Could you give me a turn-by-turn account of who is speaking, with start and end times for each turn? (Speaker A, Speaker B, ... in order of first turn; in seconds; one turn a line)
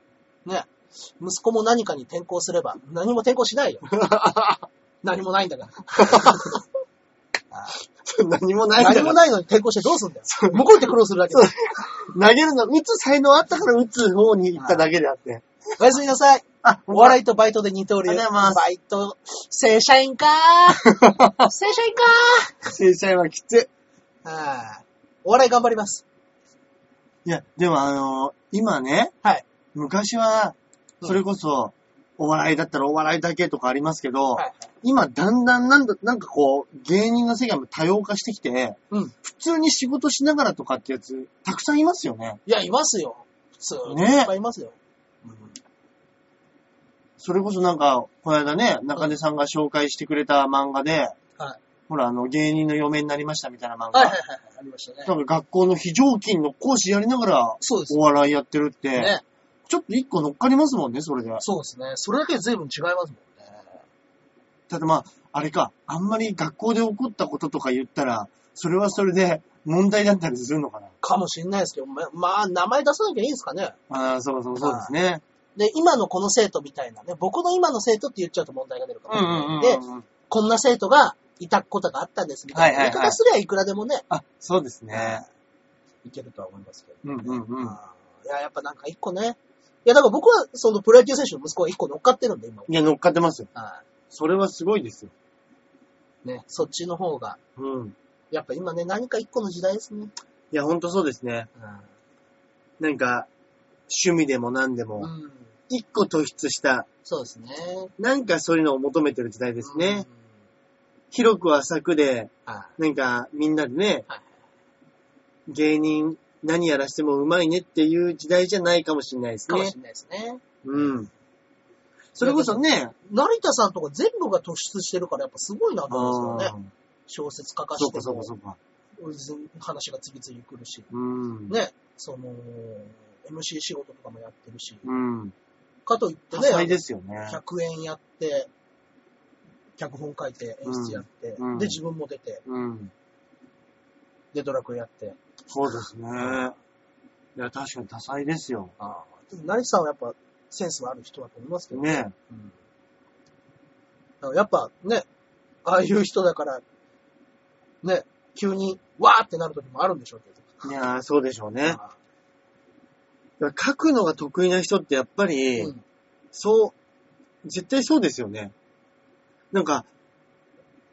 Speaker A: 0.4-3.9
Speaker B: 3.9-4.7
Speaker A: 5.0-6.6
Speaker B: 6.1-6.5
Speaker A: 7.5-7.8
Speaker B: 8.0-9.2
Speaker A: 8.8-11.5
Speaker B: 10.3-10.6
Speaker B: 11.3-15.4
Speaker A: 14.6-14.8
Speaker A: 15.8-22.7
Speaker B: 16.6-17.2
Speaker B: 18.1-18.6
Speaker B: 21.0-21.5
Speaker B: 22.7-23.7
Speaker A: 24.2-26.0
Speaker B: 27.2-29.1
Speaker B: 29.7-42.4
Speaker A: 34.4-34.7
Speaker A: 42.5-45.6
Speaker B: 43.9-44.3
Speaker B: 47.2-51.1
Speaker B: 51.9-54.2
Speaker A: 53.9-55.1
Speaker B: 55.0-59.1
Speaker A: 57.6-58.0
Speaker A: 58.9-59.2
Speaker B: 59.7-61.4
Speaker A: 61.4-63.8
Speaker B: 64.7-70.9
Speaker A: 71.0-73.8
Speaker B: 73.9-75.2
Speaker A: 74.6-74.9
Speaker A: 75.5-84.0
Speaker B: 79.1-80.0
Speaker B: 82.5-83.2
Speaker B: 84.1-85.2
Speaker A: 84.9-85.2
Speaker A: 86.0-92.7
Speaker B: 87.0-87.8
Speaker B: 92.7-93.5
Speaker A: 93.5-93.8
Speaker B: 94.1-95.1
Speaker A: 96.2-97.4
Speaker B: 97.6-97.9
Speaker A: 98.3-100.1
Speaker B: 100.5-101.5
Speaker A: 101.6-101.9
Speaker B: 102.8-103.3
Speaker B: 103.9-105.1
Speaker A: 105.0-105.5
Speaker B: 105.7-106.9
Speaker A: 107.0-107.9
Speaker B: 108.0-110.0
Speaker A: 109.6-110.2
Speaker B: 111.1-114.0
Speaker A: 112.5-112.7
Speaker B: 115.5-119.7
Speaker A: 119.5-121.0
Speaker B: 120.6-121.1
Speaker B: 122.1-122.9
Speaker A: 122.2-126.5
Speaker B: 125.9-126.7
Speaker A: 127.1-128.3
Speaker B: 127.8-128.6
Speaker A: 129.0-130.9
Speaker B: 130.9-131.5
Speaker A: 131.5-134.9
Speaker B: 134.8-135.3
Speaker A: 135.8-138.5
Speaker B: 136.3-137.4
Speaker A: 139.8-142.4
Speaker B: 140.6-141.8
Speaker B: 142.4-142.9
Speaker A: 144.3-145.2
Speaker B: 145.5-146.5
Speaker B: 147.3-148.7
Speaker A: 148.8-152.5
Speaker B: 151.7-152.1
Speaker A: 154.2-155.1
Speaker A: 155.6-156.6
Speaker A: 157.8-160.6
Speaker B: 160.6-161.8
Speaker A: 161.6-161.9
Speaker B: 163.4-165.7
Speaker A: 165.6-165.8
Speaker B: 166.3-166.7
Speaker B: 167.4-168.5
Speaker B: 169.5-169.9